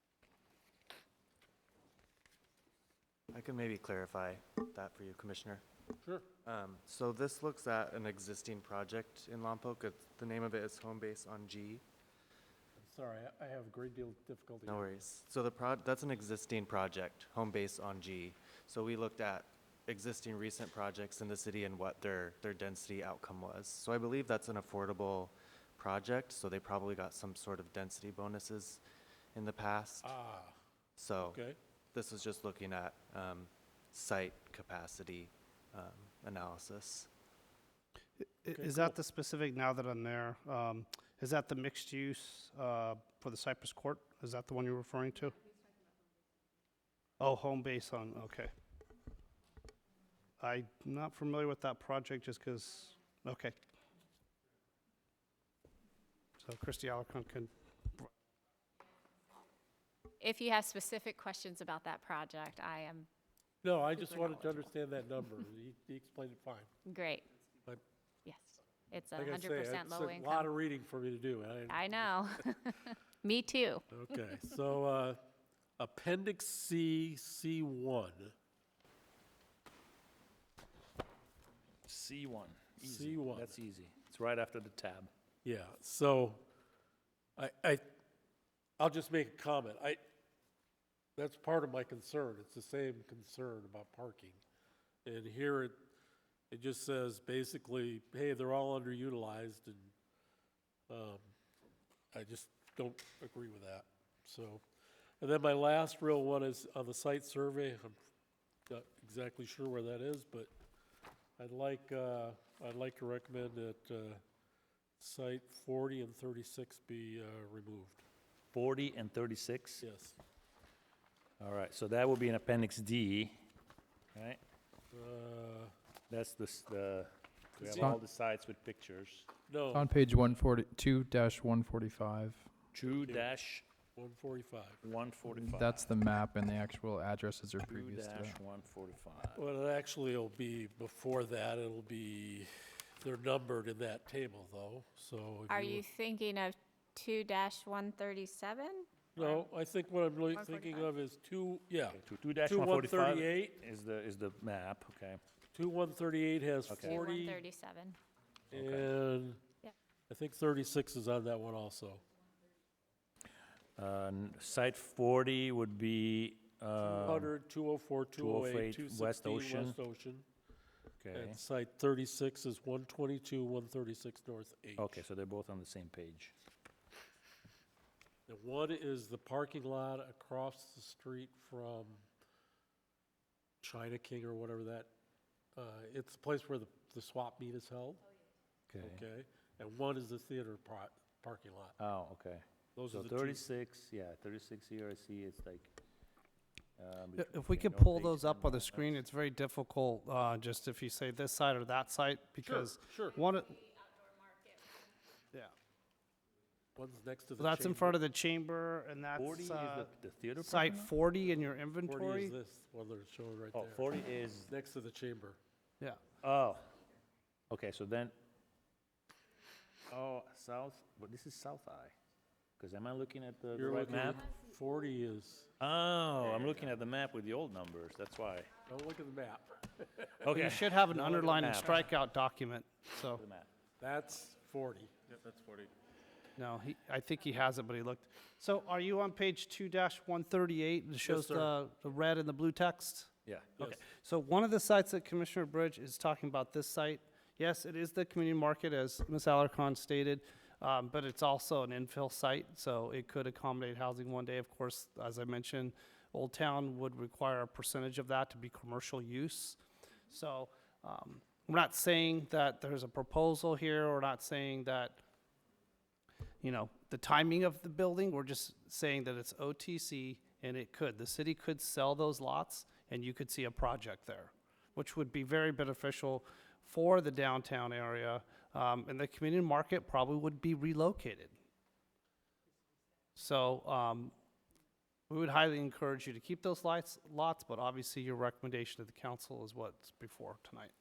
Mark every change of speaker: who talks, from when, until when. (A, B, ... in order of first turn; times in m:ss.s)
0:03.3-0:05.6 A
0:06.4-0:11.8 A
0:12.8-0:15.0 B
0:14.6-0:28.8 A
0:29.3-0:30.1 A
0:30.0-0:30.6 B
0:31.0-0:31.4 A
0:31.2-0:31.6 B
0:31.9-0:37.1 A
0:38.2-0:45.4 C
0:38.5-0:39.0 B
0:47.2-0:48.5 C
0:50.4-0:53.6 C
0:56.4-0:57.5 C
1:00.2-1:03.1 D
1:03.6-1:06.7 B
1:03.9-1:05.3 D
1:06.8-1:07.3 D
1:08.2-1:10.5 D
1:09.1-1:12.2 B
1:11.7-1:14.3 D
1:13.9-1:15.2 B
1:15.8-1:18.3 B
1:21.8-1:25.1 E
1:22.8-1:23.6 B
1:25.4-1:26.4 B
1:27.4-1:27.8 B
1:28.8-1:30.0 B
1:31.2-1:34.4 B
1:35.0-1:35.8 B
1:36.5-1:39.9 B
1:40.9-1:41.2 B
1:42.1-1:44.6 B
1:45.2-1:48.0 B
1:48.7-1:50.5 B
1:51.4-1:54.2 B
1:55.0-1:58.0 B
1:58.5-1:59.8 E
1:59.8-2:00.2 B
2:01.4-2:03.3 E
2:04.1-2:04.4 E
2:04.9-2:05.7 B
2:06.1-2:09.3 E
2:07.6-2:07.9 B
2:07.7-2:08.0 F
2:09.5-2:09.9 B
2:09.7-2:12.5 F
2:12.7-2:13.6 E
2:13.9-2:14.8 B
2:14.8-2:15.9 E
2:15.3-2:18.4 F
2:17.6-2:19.4 E
2:19.4-2:25.8 B
2:25.5-2:29.5 D
2:29.2-2:33.4 B
2:30.3-2:30.9 D
2:31.9-2:35.2 E
2:35.5-2:37.4 B
2:36.7-2:37.0 E
2:36.8-2:38.0 D
2:38.5-2:38.9 E
2:38.5-2:39.5 B
2:40.1-2:42.0 B
2:43.8-2:47.3 E
2:46.8-2:50.2 B
2:48.1-2:49.8 E
2:51.0-2:51.4 E
2:51.1-2:55.0 B
2:54.8-2:56.3 E
2:58.3-3:02.0 B
3:03.6-3:04.9 B
3:05.6-3:08.0 B
3:08.7-3:09.0 E
3:08.8-3:11.8 B
3:11.8-3:15.7 E
3:12.8-3:13.4 B
3:16.8-3:19.0 E
3:17.2-3:23.6 C
3:22.4-3:23.2 B
3:26.8-3:28.0 B
3:27.4-3:32.4 C
3:29.1-3:30.9 E
3:31.8-3:33.9 B
3:33.5-3:34.5 E
3:34.5-3:35.4 B
3:36.2-3:36.7 E
3:37.5-3:38.1 E
3:39.9-3:41.9 E
3:42.6-3:44.2 E
3:43.5-3:45.5 B
3:45.6-3:48.5 E
3:48.6-3:50.3 B
3:50.2-3:51.9 E
3:50.3-3:53.2 C
3:53.2-3:53.5 E
3:53.8-3:54.9 B
3:55.1-3:55.7 A
3:56.4-4:19.6 C
4:01.0-4:01.6 B
4:03.2-4:03.8 E
4:20.1-4:25.0 C
4:26.4-4:41.3 C
4:43.1-4:44.1 C
4:45.1-4:50.7 C